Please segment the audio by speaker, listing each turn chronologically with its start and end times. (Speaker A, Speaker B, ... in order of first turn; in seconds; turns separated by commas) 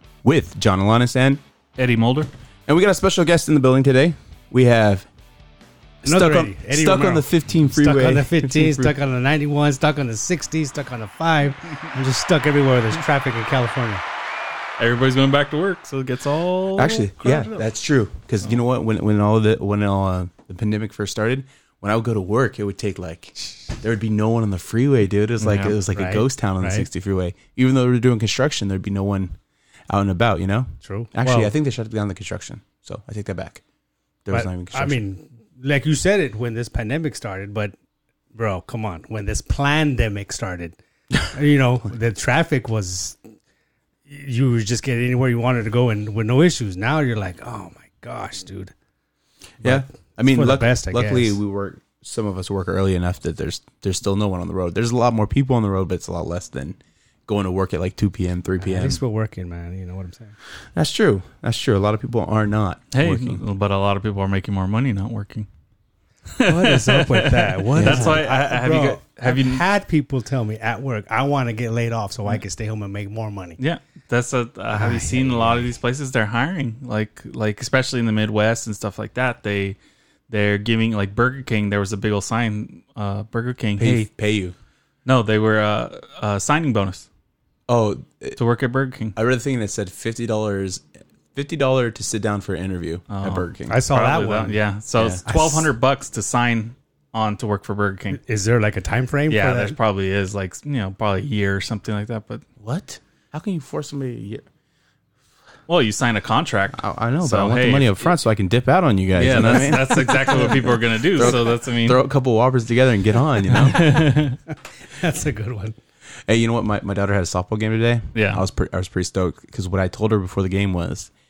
Speaker A: 0.2-1.4, Speaker B: 1.8-2.3, Speaker A: 2.7-5.1, Speaker A: 6.0-8.9, Speaker C: 6.0-14.0, Speaker B: 14.8-17.0, Speaker A: 16.8-29.4, Speaker C: 17.2-17.4, Speaker C: 25.4-26.9, Speaker B: 25.5-25.7, Speaker A: 29.9-33.6, Speaker C: 30.8-31.5, Speaker A: 34.2-35.0, Speaker C: 34.3-37.7, Speaker C: 38.3-43.2, Speaker C: 44.1-48.7, Speaker C: 49.6-51.4, Speaker A: 49.6-59.0, Speaker C: 58.6-60.4, Speaker A: 60.7-63.4, Speaker B: 62.9-65.5, Speaker B: 66.4-69.6, Speaker C: 66.4-73.6, Speaker A: 67.8-68.2, Speaker B: 73.6-79.8, Speaker C: 74.7-75.7, Speaker B: 80.3-84.1, Speaker A: 83.8-84.5, Speaker B: 85.1-87.1, Speaker A: 87.7-88.4, Speaker B: 88.4-89.2, Speaker A: 89.2-93.8, Speaker B: 93.1-98.2, Speaker C: 93.7-94.6, Speaker A: 95.0-95.2, Speaker C: 95.2-95.7, Speaker C: 98.1-99.8, Speaker B: 99.3-102.5, Speaker A: 102.6-104.5, Speaker B: 105.7-108.1, Speaker A: 106.7-113.8, Speaker B: 109.2-112.0, Speaker C: 109.2-110.7, Speaker B: 113.5-114.4, Speaker C: 113.6-114.0, Speaker C: 114.8-115.8, Speaker A: 116.3-121.1, Speaker B: 118.2-118.5